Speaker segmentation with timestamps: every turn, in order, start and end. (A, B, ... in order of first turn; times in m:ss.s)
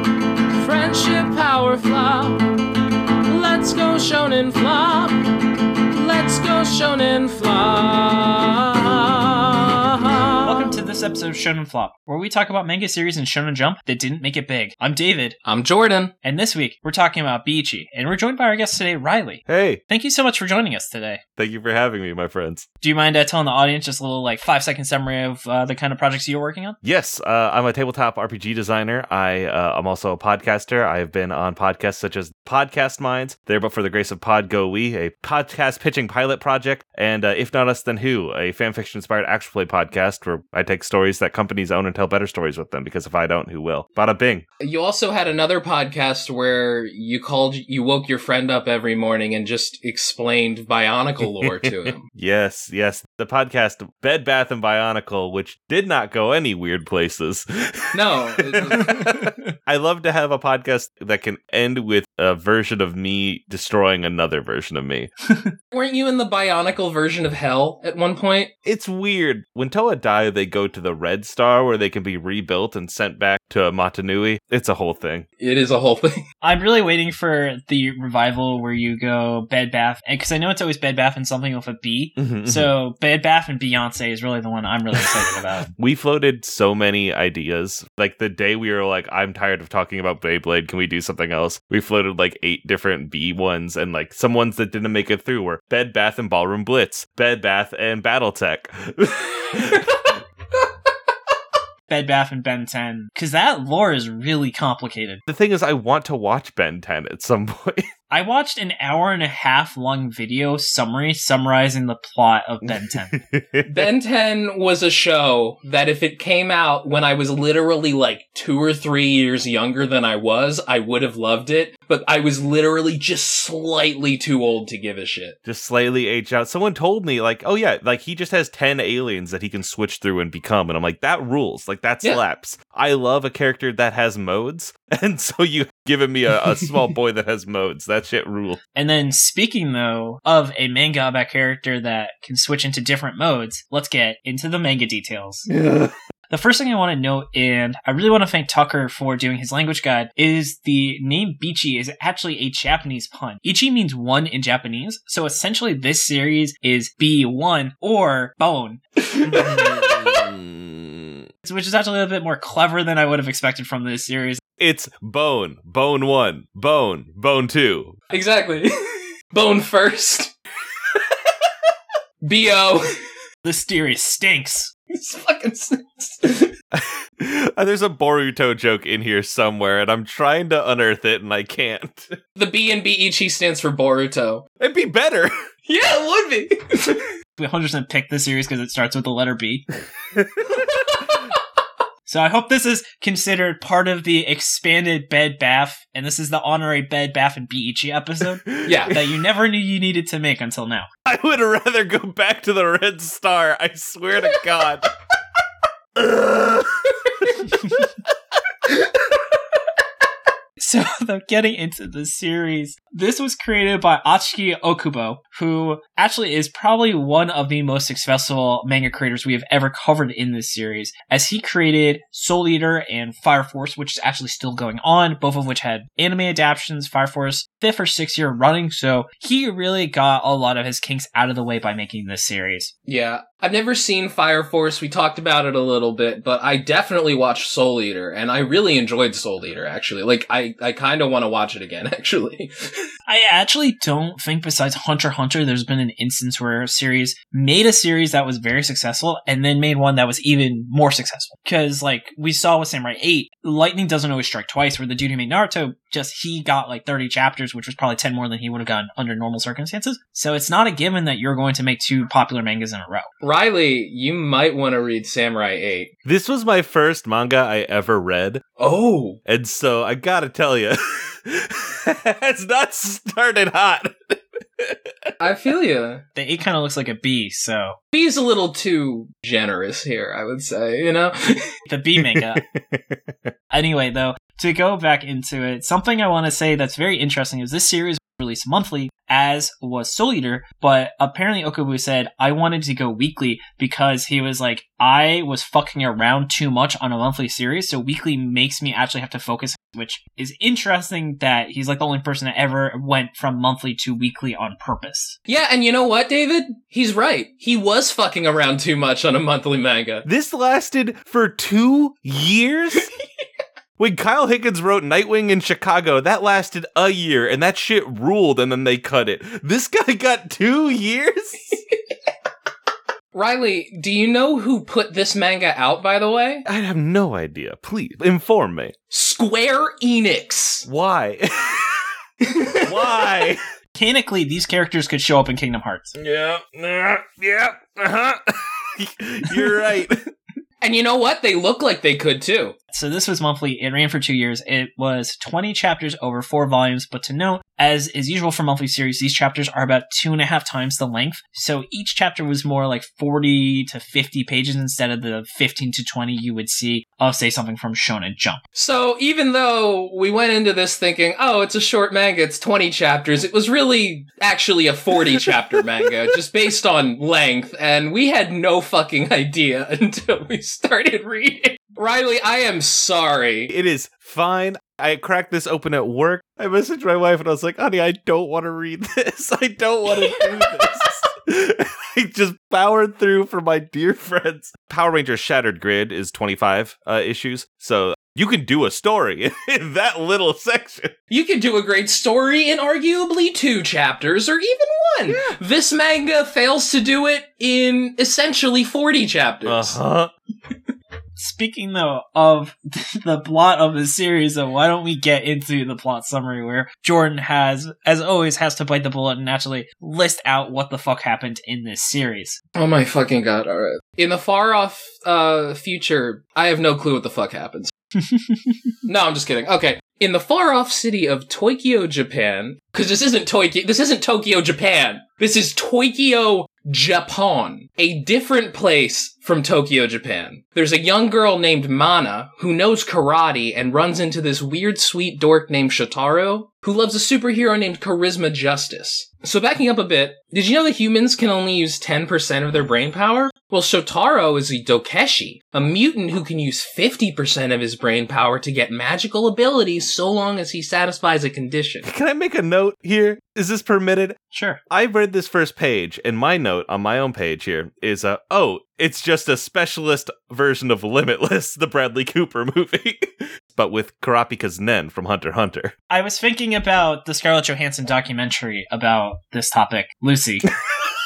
0:00.5-0:02.5 A
0:03.3-0:05.3 A
0:05.9-0:10.5 A
0:10.4-0:15.4 B
0:15.5-0:16.1 A
0:16.2-0:21.2 B
0:19.5-0:19.8 C
0:21.4-0:22.7 C
0:22.8-0:26.8 B
0:26.8-0:44.4 C
0:44.6-0:52.0 A
0:51.4-1:05.1 C
0:57.9-0:59.1 A
1:05.7-1:08.5 A
1:08.6-1:15.3 C
1:15.4-1:16.2 A
1:16.4-1:25.7 B
1:22.2-1:22.7 C
1:25.8-1:40.1 C
1:41.9-1:45.2 B
1:45.3-1:47.9 C
1:48.1-1:53.2 B
1:52.6-1:53.9 C
1:53.7-2:05.4 A
2:05.4-2:18.6 C
2:18.8-2:25.5 B
2:25.5-2:25.9 C
2:26.3-2:38.8 B
2:39.1-2:39.9 A
2:39.2-2:41.2 C
2:41.4-2:44.4 B
2:44.6-2:48.0 C
2:48.1-2:48.7 A
2:49.3-2:50.3 A
2:52.2-2:52.9 A
2:53.4-2:54.7 B
2:54.9-2:56.5 A
2:56.7-3:02.2 C
3:02.4-3:04.5 A
3:04.6-3:05.3 C
3:05.7-3:07.0 A
3:07.4-3:09.7 B
3:12.1-3:20.9 B
3:18.6-3:19.0 A
3:21.1-3:24.9 C
3:26.0-3:27.8 C
3:30.6-3:52.7 B
3:52.9-4:02.8 A
4:03.1-4:23.1 B
4:23.2-4:25.9 A
4:26.0-4:28.4 C
4:28.6-4:29.2 A
4:29.3-4:34.9 C
4:35.2-4:36.0 A
4:36.2-4:37.8 B
4:37.9-4:41.5 A
4:41.7-4:42.4 B
4:42.0-4:43.3 C
4:43.5-5:05.2 B
5:05.3-5:10.0 A
5:10.0-5:12.9 C
5:13.8-5:21.6 C
5:23.1-5:26.4 A
5:26.4-5:28.7 C
5:28.9-5:30.7 A
5:30.7-5:31.8 C
5:32.6-5:33.4 C
5:33.8-5:35.9 B
5:36.0-5:40.0 C
5:40.6-5:42.6 A
5:42.7-5:58.4 B
5:58.6-6:13.5 A
6:13.5-6:30.9 C
6:31.1-6:39.8 A
6:39.4-6:40.1 C
6:41.2-6:52.4 B
6:52.6-6:57.7 A
6:58.1-6:58.4 B
6:58.8-7:31.9 A
7:31.8-7:34.2 C
7:34.3-7:34.6 B
7:34.7-7:45.7 C
7:45.9-7:50.5 B